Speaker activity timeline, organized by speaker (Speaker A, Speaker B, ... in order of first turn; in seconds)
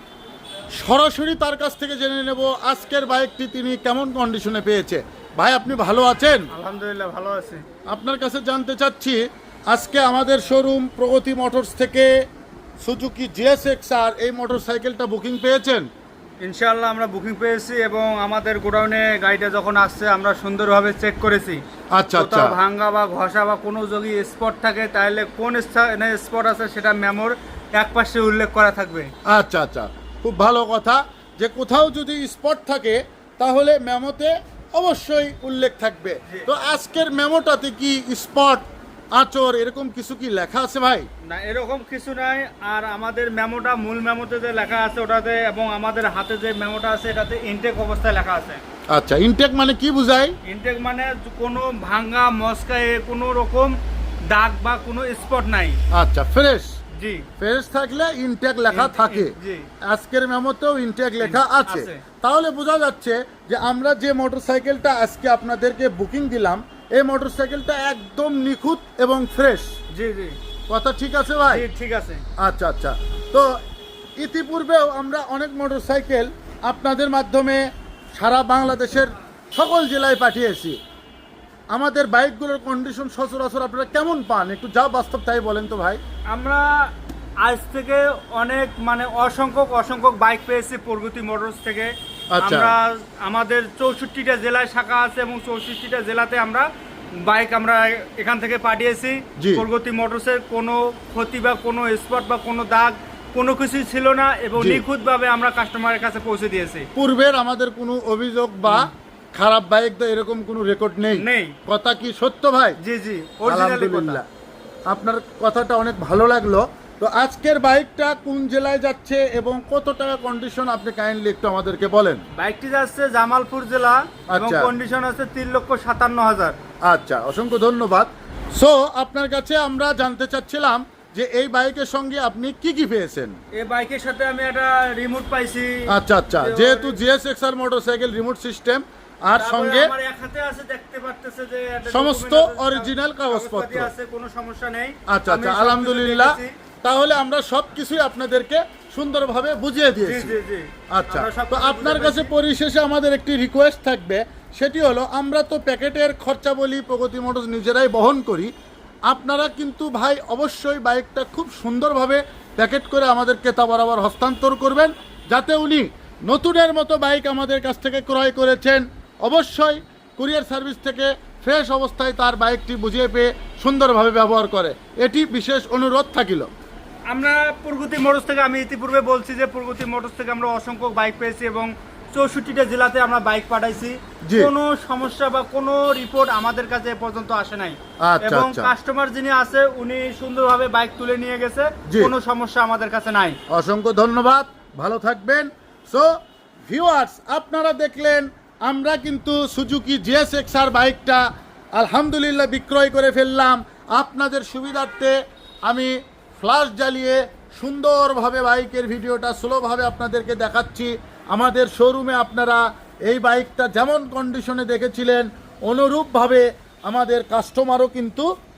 Speaker A: 0.8-6.5, 7.9-12.1, 12.8-15.9, 21.9-22.6, 29.3-41.1, 48.9-50.4, 55.9-56.7, 57.4-69.7, 70.7-71.6, 72.4-73.5, 74.2-80.8, 81.7-86.0, 92.3-92.7, 99.4-99.6, 104.5-104.8, 107.0-112.8, 113.5-114.2, 114.9-122.2, 124.3-124.7, 126.8-133.4, 135.9-139.9, 141.9-143.9, 145.1-150.3, 150.9-158.5, 159.1-176.5, 184.2-184.5, 188.0-188.7, 191.9-192.1, 193.5-196.1, 196.7-201.2, 201.8-205.1, 205.7-218.3
Speaker B: 6.5-7.6, 16.4-21.6, 22.1-29.1, 41.2-48.6, 50.4-53.8, 54.3-55.8, 57.0-57.3, 58.7-59.7, 61.2-62.0, 69.9-70.4, 71.5-72.2, 86.3-86.9, 87.4-96.7, 97.2-106.9, 111.1-111.6, 112.8-114.2, 122.3-126.6, 133.5-137.0, 139.3-146.5, 150.0-152.3, 177.1-193.4